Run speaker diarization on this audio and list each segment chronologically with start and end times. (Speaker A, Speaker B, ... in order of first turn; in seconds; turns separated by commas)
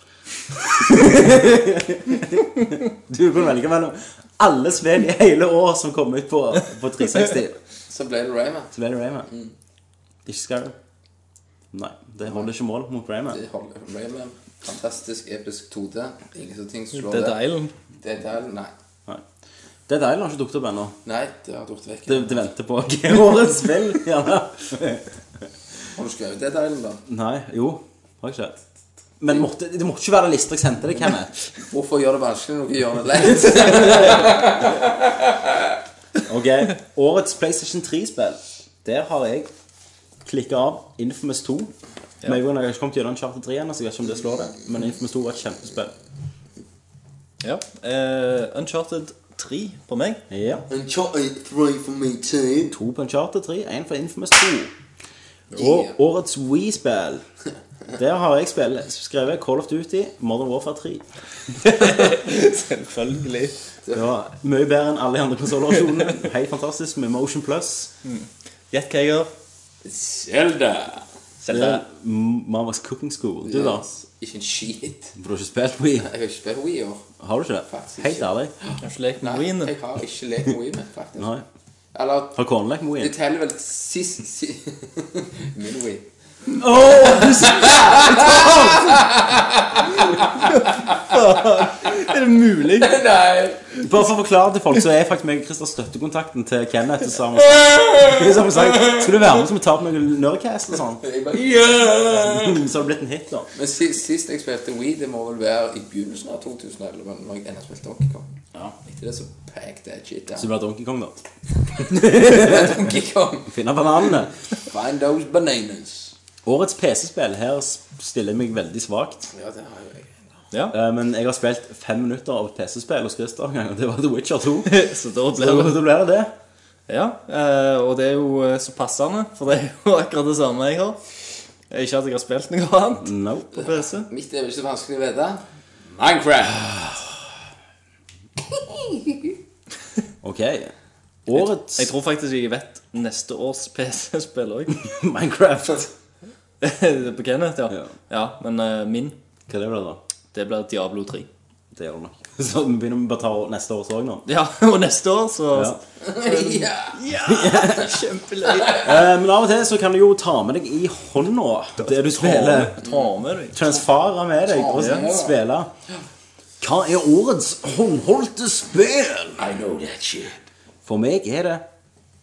Speaker A: 0.6-7.6, Speaker B: 7.9-8.7, Speaker A: 8.7-9.3, Speaker A: 10.2-10.8, Speaker A: 11.7-13.4, Speaker B: 13.3-17.4, Speaker C: 16.9-17.7, Speaker B: 18.0-18.7, Speaker A: 19.9-21.0, Speaker B: 21.0-22.4, Speaker A: 22.1-25.1, Speaker B: 25.9-27.0, Speaker A: 27.1-28.6, Speaker A: 29.2-31.3, Speaker B: 31.6-35.5, Speaker A: 33.5-34.3, Speaker A: 36.2-39.5, Speaker A: 40.2-45.9, Speaker C: 47.4-50.2, Speaker A: 50.3-50.6, Speaker B: 50.7-52.8, Speaker A: 52.7-54.7, Speaker B: 55.5-56.0, Speaker A: 55.5-57.2, Speaker A: 57.9-61.0, Speaker C: 61.6-63.5, Speaker A: 63.9-67.9, Speaker C: 68.0-69.3, Speaker B: 69.8-71.0, Speaker C: 71.4-71.8, Speaker A: 71.5-73.8, Speaker B: 73.4-75.1, Speaker A: 75.2-76.1, Speaker B: 76.0-77.0, Speaker A: 77.2-78.5, Speaker B: 77.7-81.3, Speaker C: 78.8-79.7, Speaker A: 81.2-81.4, Speaker B: 81.9-82.4, Speaker A: 82.3-83.1, Speaker B: 83.0-86.1, Speaker A: 86.5-89.0, Speaker B: 86.8-91.1, Speaker C: 90.4-93.0, Speaker B: 92.8-93.8, Speaker A: 93.8-101.0, Speaker B: 97.8-99.0, Speaker B: 101.0-102.6, Speaker A: 102.1-103.5, Speaker B: 103.5-110.5, Speaker A: 110.3-111.2, Speaker A: 111.8-112.9, Speaker B: 111.8-113.5, Speaker A: 113.5-114.3, Speaker B: 114.7-116.1, Speaker A: 116.4-119.3, Speaker B: 119.3-120.3, Speaker A: 120.7-124.8, Speaker C: 124.7-125.8, Speaker A: 125.3-126.3, Speaker C: 126.9-131.0, Speaker C: 131.7-134.1, Speaker A: 133.0-133.5, Speaker B: 133.6-137.0, Speaker B: 138.5-139.3, Speaker A: 140.2-140.7, Speaker A: 141.2-141.9, Speaker C: 141.3-144.9, Speaker A: 144.8-145.9, Speaker C: 146.6-149.2, Speaker A: 149.5-150.0, Speaker C: 150.3-151.3, Speaker A: 151.7-154.2, Speaker C: 154.2-159.0, Speaker A: 155.5-155.8, Speaker B: 156.0-157.0, Speaker A: 157.2-158.0, Speaker A: 158.7-162.8, Speaker C: 161.8-163.6, Speaker B: 162.8-163.1, Speaker A: 163.5-165.7, Speaker B: 164.4-165.4, Speaker C: 164.8-165.0, Speaker A: 166.6-169.4, Speaker B: 169.4-170.4, Speaker A: 170.8-171.6